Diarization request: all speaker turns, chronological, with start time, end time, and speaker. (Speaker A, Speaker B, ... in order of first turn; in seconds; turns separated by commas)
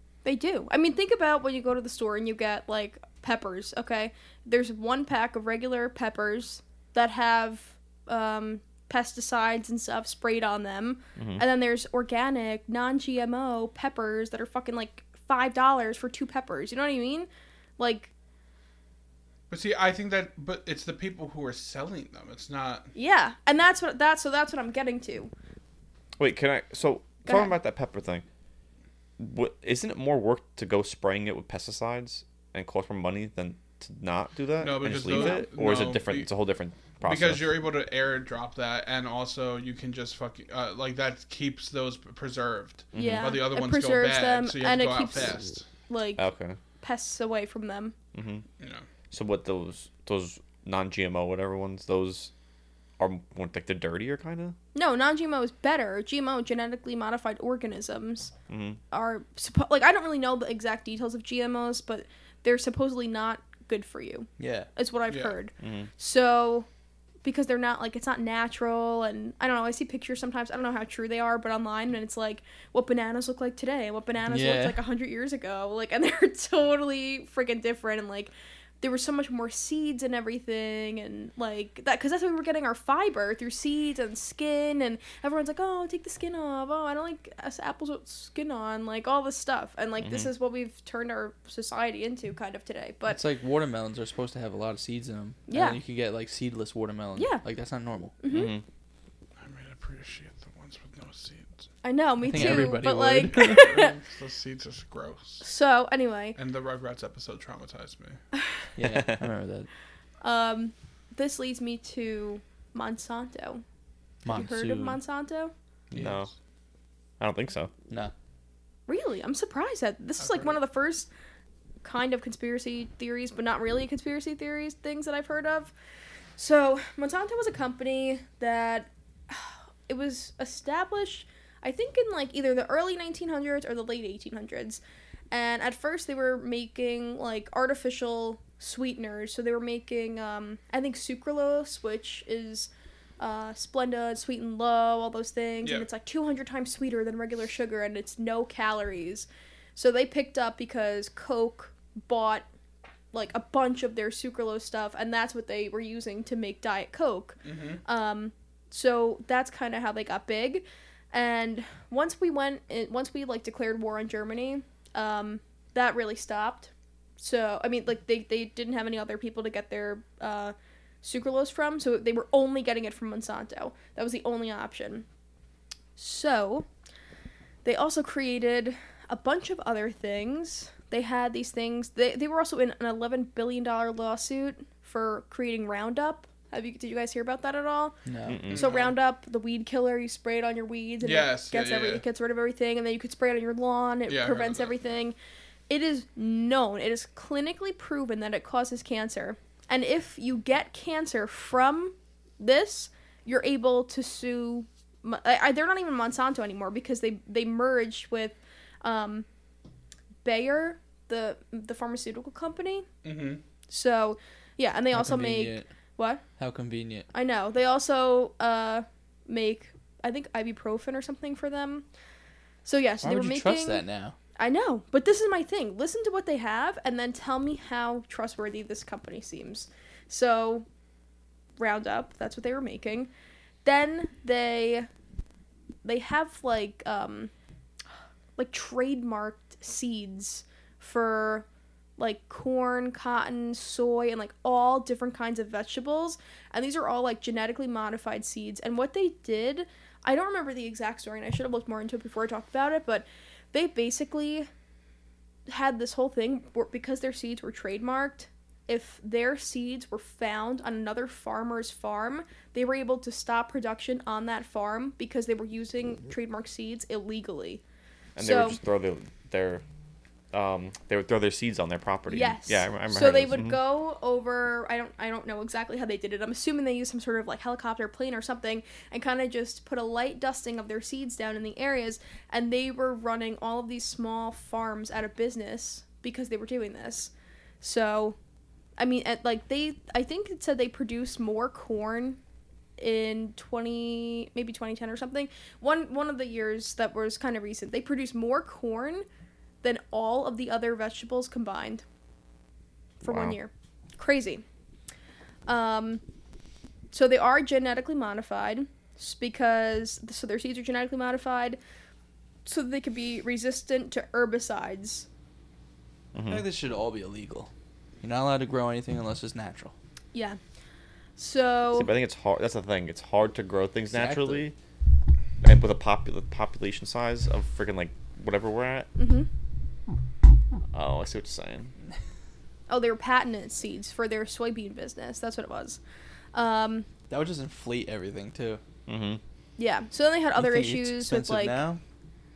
Speaker A: 0.2-18.1, Speaker B: 11.2-11.4, Speaker C: 19.5-22.9, Speaker A: 22.9-25.3, Speaker B: 26.2-28.2, Speaker A: 27.2-27.5, Speaker B: 29.2-37.5, Speaker C: 34.6-36.3, Speaker A: 35.1-35.5, Speaker C: 37.0-45.6, Speaker B: 42.9-43.4, Speaker A: 43.0-45.4, Speaker A: 45.9-46.2, Speaker B: 46.2-46.6, Speaker A: 46.8-48.0, Speaker B: 48.1-48.5, Speaker C: 48.6-48.9, Speaker B: 49.1-52.3, Speaker B: 53.0-54.6, Speaker A: 54.7-58.3, Speaker B: 58.5-58.8, Speaker A: 58.9-66.7, Speaker D: 64.4-64.7, Speaker C: 65.1-65.3, Speaker B: 65.6-65.9, Speaker A: 67.2-93.2, Speaker D: 74.3-74.8, Speaker B: 90.0-90.3, Speaker D: 93.1-98.1, Speaker A: 95.5-95.8, Speaker A: 97.2-97.4, Speaker A: 98.2-98.6, Speaker B: 98.3-98.6, Speaker C: 99.4-101.7, Speaker A: 101.8-103.9, Speaker D: 102.2-103.8, Speaker C: 102.3-102.7, Speaker C: 103.4-105.5, Speaker A: 105.4-106.4, Speaker C: 106.4-108.2, Speaker D: 108.8-109.7, Speaker B: 108.8-109.2, Speaker A: 110.2-113.6, Speaker D: 114.2-115.0, Speaker A: 114.3-115.5, Speaker C: 115.9-116.2, Speaker B: 116.0-116.3, Speaker B: 117.2-117.7, Speaker A: 118.9-121.1, Speaker C: 120.2-120.5, Speaker A: 121.8-125.7, Speaker A: 126.4-152.5, Speaker A: 153.1-175.1, Speaker C: 157.4-157.8, Speaker A: 176.0-176.7, Speaker A: 177.7-188.0, Speaker D: 188.1-188.4, Speaker B: 188.3-188.7, Speaker C: 188.5-189.0, Speaker A: 188.5-195.2, Speaker C: 191.0-192.0, Speaker C: 194.1-194.8, Speaker A: 195.7-209.3, Speaker A: 210.2-212.9, Speaker C: 213.0-213.4, Speaker A: 213.7-216.2, Speaker D: 214.9-215.7, Speaker D: 216.4-217.1, Speaker A: 217.1-221.9, Speaker A: 222.7-223.8, Speaker D: 223.0-224.2, Speaker A: 224.4-230.7, Speaker A: 231.6-233.1, Speaker A: 233.7-234.9, Speaker A: 235.8-237.3, Speaker A: 238.4-241.5, Speaker A: 242.0-254.5, Speaker A: 255.5-267.6, Speaker B: 268.2-269.6, Speaker A: 268.2-268.6, Speaker B: 270.3-273.6, Speaker A: 272.1-288.2, Speaker A: 288.8-292.2, Speaker A: 292.8-299.1, Speaker A: 299.6-301.8, Speaker A: 303.0-304.4, Speaker B: 303.1-303.4, Speaker A: 305.5-306.0, Speaker A: 306.9-311.6, Speaker A: 312.4-315.1, Speaker B: 316.1-316.4, Speaker D: 316.3-317.5, Speaker D: 318.0-319.7, Speaker A: 321.2-321.9, Speaker B: 321.7-324.6, Speaker D: 323.9-324.5, Speaker B: 325.4-328.9, Speaker A: 329.0-329.3, Speaker B: 330.7-331.7, Speaker A: 332.7-335.8, Speaker A: 336.3-336.9, Speaker D: 337.1-338.6, Speaker B: 338.9-339.2, Speaker A: 339.6-341.6, Speaker D: 340.4-341.8